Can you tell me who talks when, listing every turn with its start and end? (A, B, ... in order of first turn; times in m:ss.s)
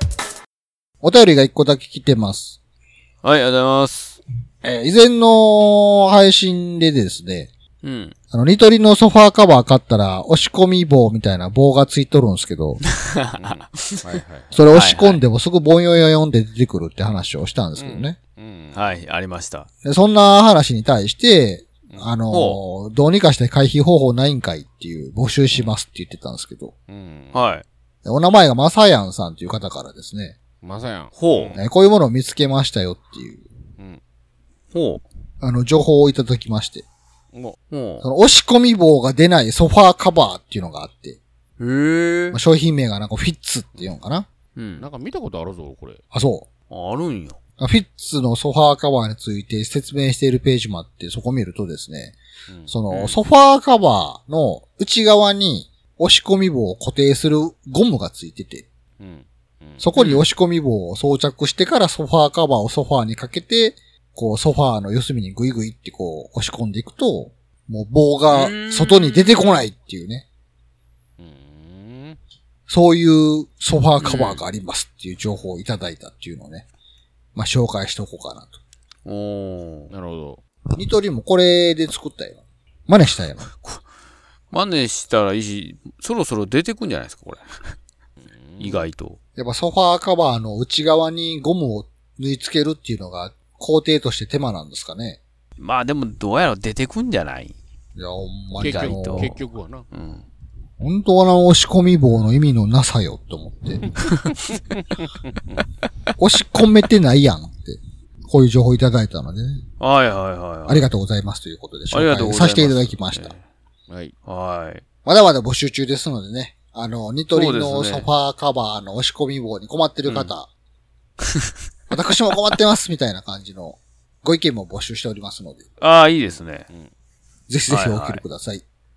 0:01.0-0:02.6 A
0:03.2-0:04.2 B
0:04.6-0:07.5 A
0:07.8-0:08.1 B
0:08.3-0:12.8 A
0:12.9-0:14.0 B
0:13.4-0:14.6 C
0:14.5-0:18.2 A
0:14.7-0:15.2 B
0:17.8-0:19.0 C
0:18.7-0:19.7 B
0:19.8-0:26.7 A
0:21.9-0:22.2 C
0:22.3-0:22.6 B
0:26.9-0:27.4 C
0:27.3-0:27.6 B
0:28.0-0:30.4 A
0:30.6-0:31.6 C
0:31.2-0:31.6 B
0:31.5-0:33.4 A
0:34.7-0:35.0 B
0:35.4-0:36.8 A
0:37.3-0:37.6 C
0:37.7-0:38.0 B
0:38.0-0:41.2 A
0:41.6-0:42.4 B
0:42.3-0:44.3 A
0:44.6-0:44.9 B
0:44.8-0:46.0 C
0:46.1-0:46.5 A
0:46.7-0:47.4 B
0:47.6-0:52.2 A
0:52.5-0:53.2 C
0:52.7-0:58.6 A
0:59.0-0:59.9 C
0:59.8-1:10.2 A
1:00.0-1:00.3 B
1:08.3-1:09.7 B
1:11.2-1:12.2 C
1:12.7-1:16.6 A
1:14.0-1:14.4 B
1:17.3-1:18.6 A
1:19.0-1:19.9 B
1:19.9-1:20.4 C
1:20.7-1:23.5 A
1:23.5-1:23.8 B
1:24.5-1:27.6 B
1:28.2-1:28.9 C
1:28.6-1:29.2 B
1:29.4-1:35.2 A
1:35.6-1:37.5 B
1:38.0-1:39.4 A
1:38.6-1:39.9 C
1:38.6-1:39.4 B
1:39.9-1:40.2 B
1:40.8-1:43.9 A
1:44.0-1:45.6 C
1:46.2-1:49.6 A
1:49.8-1:50.9 B
1:50.7-1:53.3 A
1:51.9-1:53.4 B
1:53.9-1:54.1 C
1:54.2-1:54.8 B
1:55.0-2:00.5 A
1:57.3-1:58.1 B
2:00.0-2:00.3 B
2:01.2-2:01.5 B
2:01.9-2:05.6 A
2:05.8-2:06.7 B
2:07.5-2:08.6 A
2:07.7-2:08.2 B